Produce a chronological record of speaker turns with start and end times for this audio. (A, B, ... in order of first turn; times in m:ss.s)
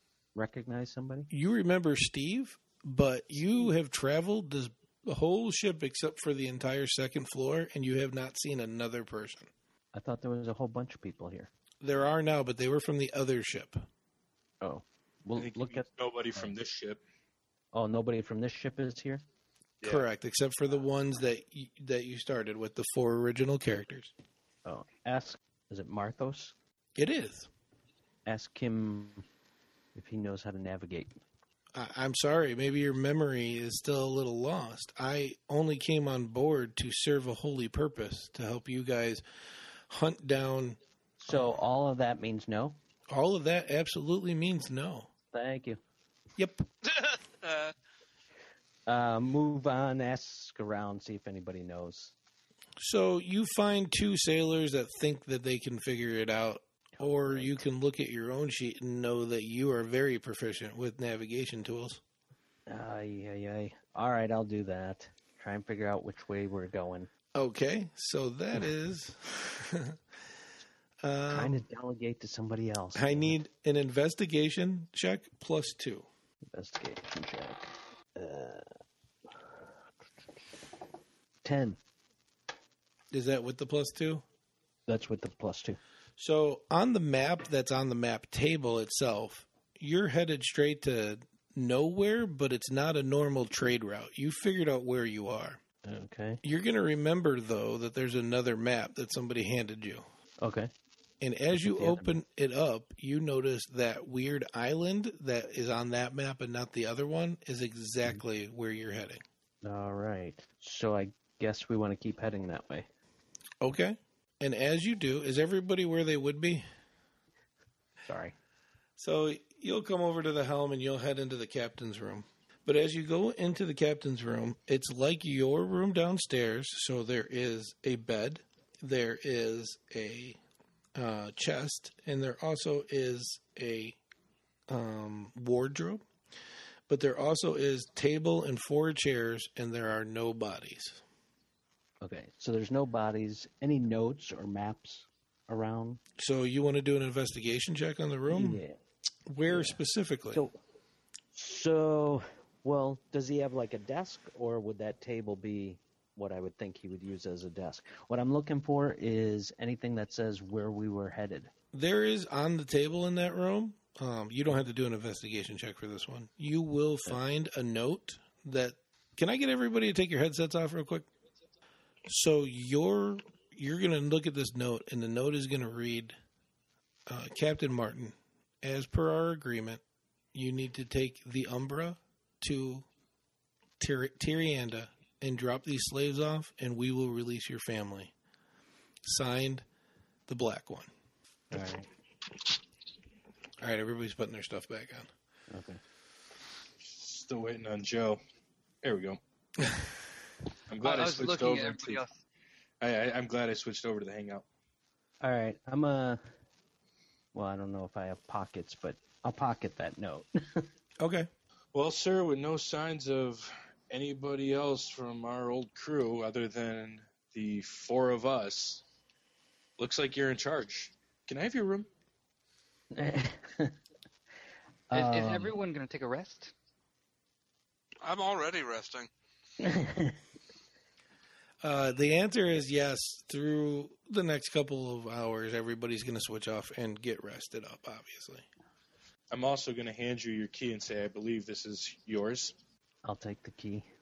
0:00.3-0:01.3 A
0:01.3-0:09.5 B
0:09.9-0:11.5 A
0:11.8-0:13.8 B
0:14.6-0:16.5 A
0:15.4-0:17.0 C
0:17.7-0:19.2 A
0:19.8-0:24.1 B
0:24.6-0:26.5 A
0:27.0-0:27.5 B
0:28.2-0:29.2 A
0:29.9-0:31.2 A
0:31.7-0:39.2 B
0:39.9-0:40.8 B
0:41.2-0:42.8 A
0:41.3-0:41.6 B
0:43.1-0:45.1 B
0:45.3-0:45.8 A
0:46.4-0:46.6 B
0:46.9-0:47.7 D
0:48.9-0:52.1 A
0:52.8-1:02.0 B
0:57.0-0:57.6 A
1:02.7-1:07.1 A
1:07.3-1:10.0 B
1:11.0-1:11.6 B
1:11.3-1:13.3 A
1:12.9-1:16.1 B
1:16.5-1:18.7 A
1:19.3-1:19.6 A
1:21.4-1:21.8 A
1:23.1-1:24.2 B
1:24.9-1:25.8 A
1:26.2-1:35.6 B
1:35.8-1:36.4 A
1:36.4-1:40.0 B
1:40.4-1:40.7 A
1:41.2-1:49.2 B
1:41.6-1:42.1 A
1:49.6-1:52.9 A
1:53.6-1:56.6 B
1:58.0-1:58.3 A
1:59.0-2:10.4 B
2:10.9-2:14.0 B
2:14.7-2:16.0 B
2:16.9-2:21.0 B
2:22.0-2:26.0 A
2:26.2-2:28.6 B
2:28.3-2:28.8 A
2:29.3-2:30.4 B
2:29.5-2:29.8 A
2:30.3-2:30.6 A
2:31.3-2:41.5 A
2:41.7-2:51.1 B
2:52.0-2:56.2 B
2:57.1-2:59.8 B
3:00.3-3:02.9 B
3:03.8-3:08.1 B
3:09.0-3:09.6 B
3:10.3-3:10.9 B
3:11.5-3:11.9 A
3:13.6-3:15.1 B
3:15.5-3:15.8 A
3:16.8-3:18.2 C
3:18.8-3:19.2 C
3:20.7-3:22.0 C
3:20.8-3:22.2 E
3:22.8-3:24.4 C
3:25.2-3:26.2 A
3:27.3-3:30.7 A
3:31.0-3:31.3 B
3:31.7-3:38.8 C
3:39.8-3:41.9 C
3:42.9-3:43.8 A
3:44.9-3:45.6 A
3:44.9-3:46.5 E
3:48.0-3:49.1 D
3:49.6-3:50.2 A
3:51.6-3:58.4 B
3:59.3-4:02.6 C
4:03.0-4:03.9 A